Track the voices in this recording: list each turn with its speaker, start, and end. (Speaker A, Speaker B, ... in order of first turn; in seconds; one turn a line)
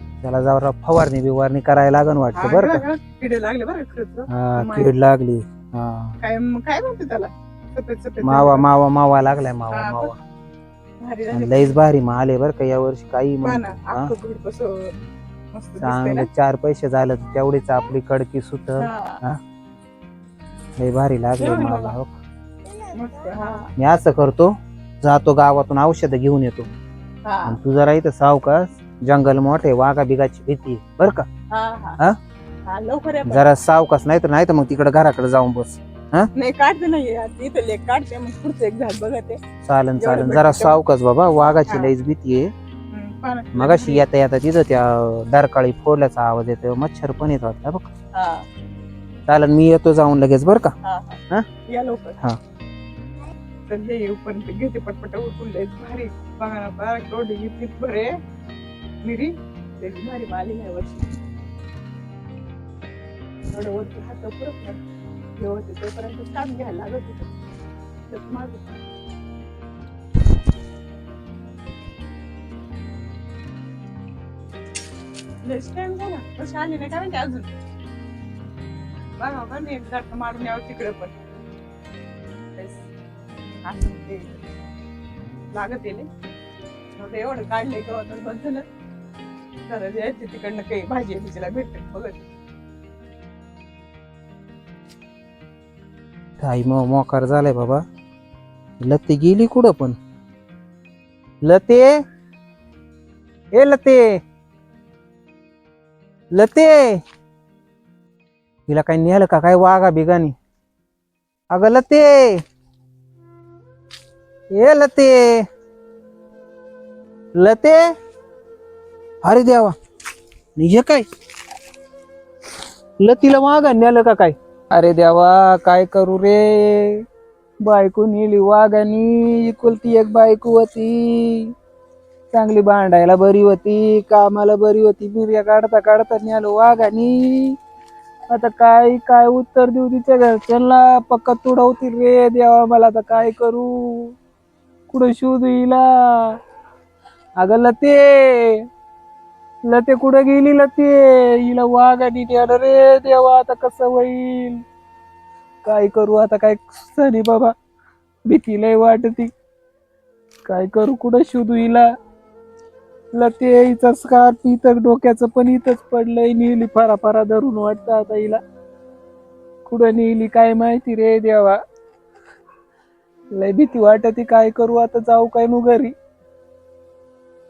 Speaker A: 0.2-2.8
Speaker B: 2.3-5.0
Speaker A: 4.3-6.2
Speaker B: 6.2-8.7
Speaker A: 8.2-10.2
Speaker B: 9.7-10.1
Speaker B: 11.0-11.8
Speaker A: 11.3-14.1
Speaker B: 13.4-14.8
Speaker B: 15.5-16.3
Speaker A: 15.8-19.4
Speaker B: 18.8-19.2
Speaker A: 20.8-22.2
Speaker B: 21.4-22.0
Speaker B: 22.9-23.7
Speaker A: 23.8-26.7
Speaker B: 27.3-27.6
Speaker A: 27.5-31.3
Speaker B: 31.5-32.0
Speaker B: 32.7-33.5
Speaker A: 33.2-36.3
Speaker B: 36.4-39.4
Speaker A: 39.6-42.5
Speaker B: 40.0-40.8
Speaker B: 41.7-41.9
Speaker B: 42.9-44.0
Speaker A: 43.5-47.9
Speaker B: 48.1-48.5
Speaker A: 49.3-50.7
Speaker B: 50.8-52.1
Speaker B: 53.7-58.1
Speaker B: 59.0-61.1
Speaker B: 63.5-64.8
Speaker B: 65.4-67.3
Speaker B: 68.1-68.7
Speaker B: 75.5-77.6
Speaker B: 79.2-81.2
Speaker B: 82.5-82.8
Speaker B: 83.7-84.4
Speaker B: 85.5-86.1
Speaker B: 87.0-88.6
Speaker B: 89.7-92.3
Speaker A: 96.4-97.8
Speaker A: 98.8-100.0
Speaker A: 101.4-101.9
Speaker A: 103.5-104.2
Speaker A: 106.3-107.0
Speaker A: 108.7-110.3
Speaker A: 111.5-112.4
Speaker A: 114.5-115.4
Speaker A: 117.4-117.8
Speaker A: 119.2-119.7
Speaker A: 120.6-121.1
Speaker A: 123.0-127.0
Speaker A: 127.6-131.5
Speaker A: 132.3-137.6
Speaker A: 138.3-144.2
Speaker A: 144.9-146.4
Speaker A: 147.4-148.7
Speaker A: 149.7-154.6
Speaker A: 155.7-157.5
Speaker A: 158.3-159.3
Speaker A: 160.5-161.9
Speaker A: 163.2-168.4
Speaker A: 169.7-171.6
Speaker A: 173.3-175.9